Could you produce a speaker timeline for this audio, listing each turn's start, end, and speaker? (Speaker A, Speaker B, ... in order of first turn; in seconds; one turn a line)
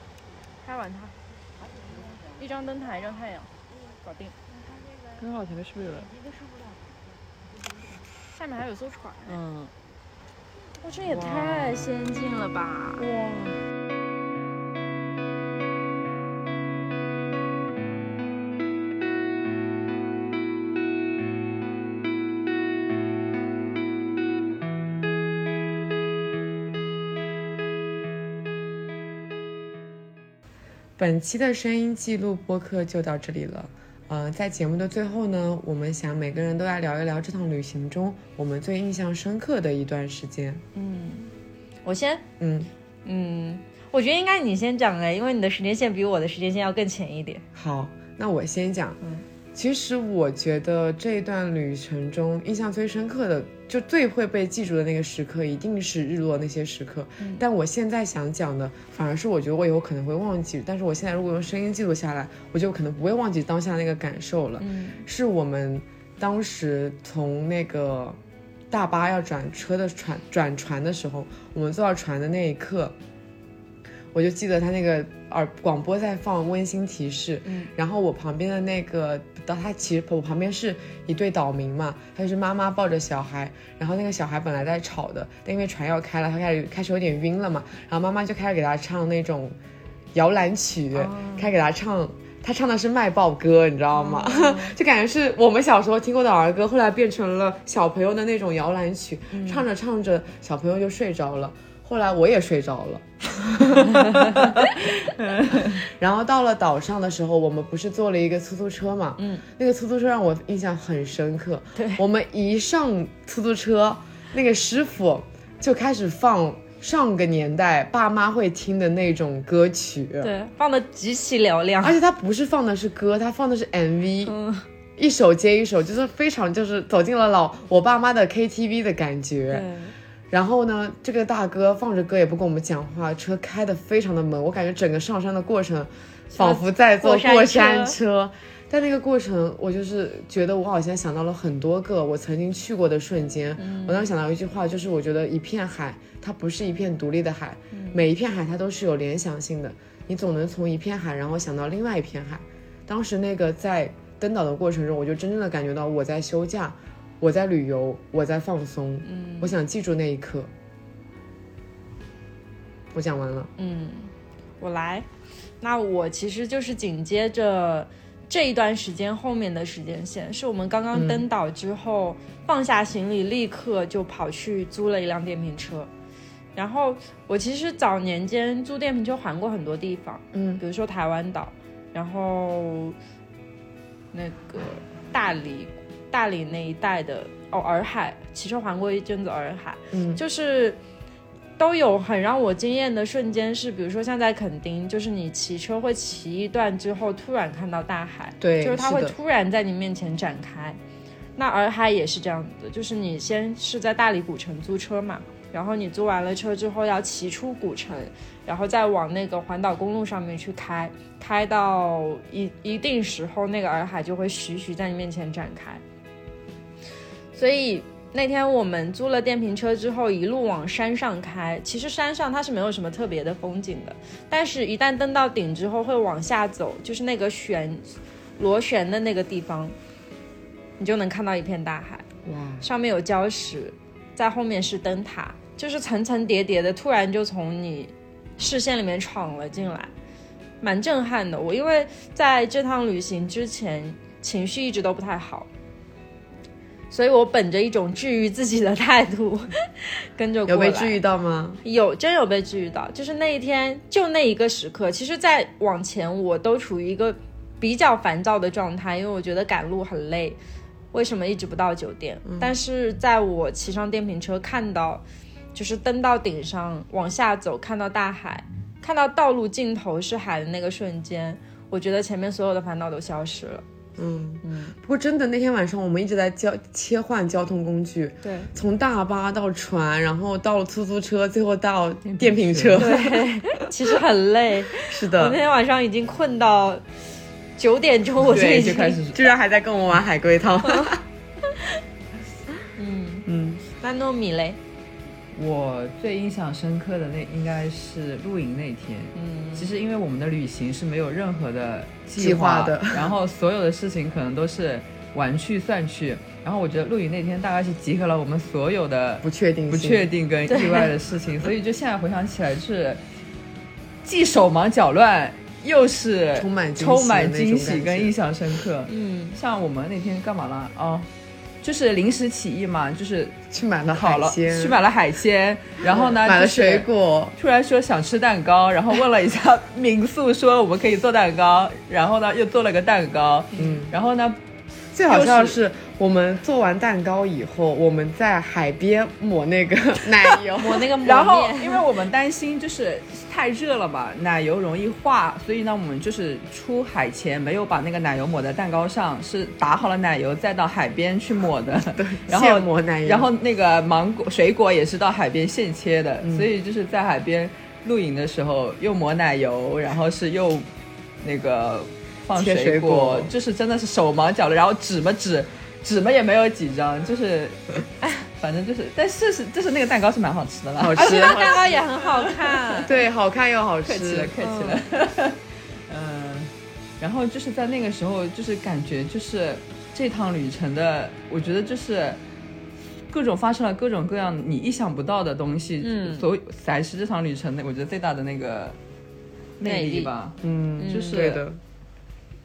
Speaker A: 0.6-1.1
Speaker A: 2.4-4.3
Speaker A: 8.1-9.4
Speaker A: 10.8-13.1
Speaker B: 11.3-11.8
Speaker B: 31.0-40.6
Speaker A: 40.7-41.3
Speaker A: 41.8-42.3
Speaker B: 42.4-42.7
Speaker A: 43.0-47.5
Speaker B: 47.5-49.0
Speaker B: 49.5-68.2
Speaker A: 57.2-57.4
Speaker A: 64.6-65.0
Speaker B: 68.7-73.0
Speaker B: 74.1-89.5
Speaker A: 77.5-77.7
Speaker B: 90.1-104.7
Speaker A: 90.9-91.5
Speaker A: 93.9-94.7
Speaker A: 99.3-99.6
Speaker B: 105.5-120.3
Speaker A: 109.2-109.5
Speaker A: 111.8-112.0
Speaker A: 120.2-122.0
Speaker B: 121.8-124.3
Speaker A: 124.2-124.7
Speaker B: 125.0-129.7
Speaker A: 129.5-129.9
Speaker B: 130.3-160.5
Speaker A: 136.3-137.9
Speaker A: 143.6-144.1
Speaker A: 147.7-148.0
Speaker A: 159.0-159.6
Speaker B: 162.9-163.5
Speaker A: 163.6-165.1
Speaker A: 165.6-175.9
Speaker B: 170.9-171.3
Speaker A: 176.6-182.9
Speaker B: 180.3-180.6
Speaker A: 184.1-190.8
Speaker B: 189.9-190.2
Speaker A: 191.6-200.8
Speaker B: 198.4-199.1
Speaker A: 201.4-215.8
Speaker A: 217.3-229.7
Speaker A: 230.8-232.1
Speaker B: 232.2-232.7
Speaker A: 232.6-239.9
Speaker A: 240.6-245.5
Speaker A: 246.9-251.0
Speaker B: 250.4-251.6
Speaker A: 251.6-260.4
Speaker A: 260.9-273.6
Speaker B: 274.0-283.3
Speaker A: 274.4-274.7
Speaker A: 278.2-278.5
Speaker C: 282.1-282.8
Speaker A: 282.8-286.9
Speaker B: 284.7-285.4
Speaker A: 287.6-289.0
Speaker C: 288.3-289.2
Speaker B: 288.3-291.0
Speaker A: 290.6-290.9
Speaker A: 292.8-294.6
Speaker B: 293.3-293.6
Speaker C: 295.3-313.0
Speaker A: 299.1-299.7
Speaker B: 302.1-303.1
Speaker B: 309.2-310.1
Speaker A: 310.5-310.9
Speaker C: 314.0-321.1
Speaker B: 316.4-318.1
Speaker A: 318.9-319.4
Speaker C: 321.6-334.4
Speaker B: 323.5-324.8
Speaker B: 325.8-327.4
Speaker B: 333.6-333.9
Speaker B: 334.9-340.9
Speaker C: 335.1-335.6
Speaker A: 340.5-341.8
Speaker C: 341.0-360.7
Speaker B: 351.9-353.3
Speaker B: 356.2-356.5
Speaker C: 361.2-367.7
Speaker B: 362.3-363.3
Speaker C: 368.3-371.6
Speaker B: 370.8-371.8
Speaker A: 371.0-372.9
Speaker B: 372.8-374.3
Speaker C: 373.8-382.2
Speaker A: 374.4-374.8
Speaker C: 383.1-388.8
Speaker A: 385.8-386.3
Speaker C: 389.6-390.4
Speaker A: 389.6-390.1
Speaker B: 390.4-391.6
Speaker A: 390.8-391.3
Speaker C: 390.9-391.4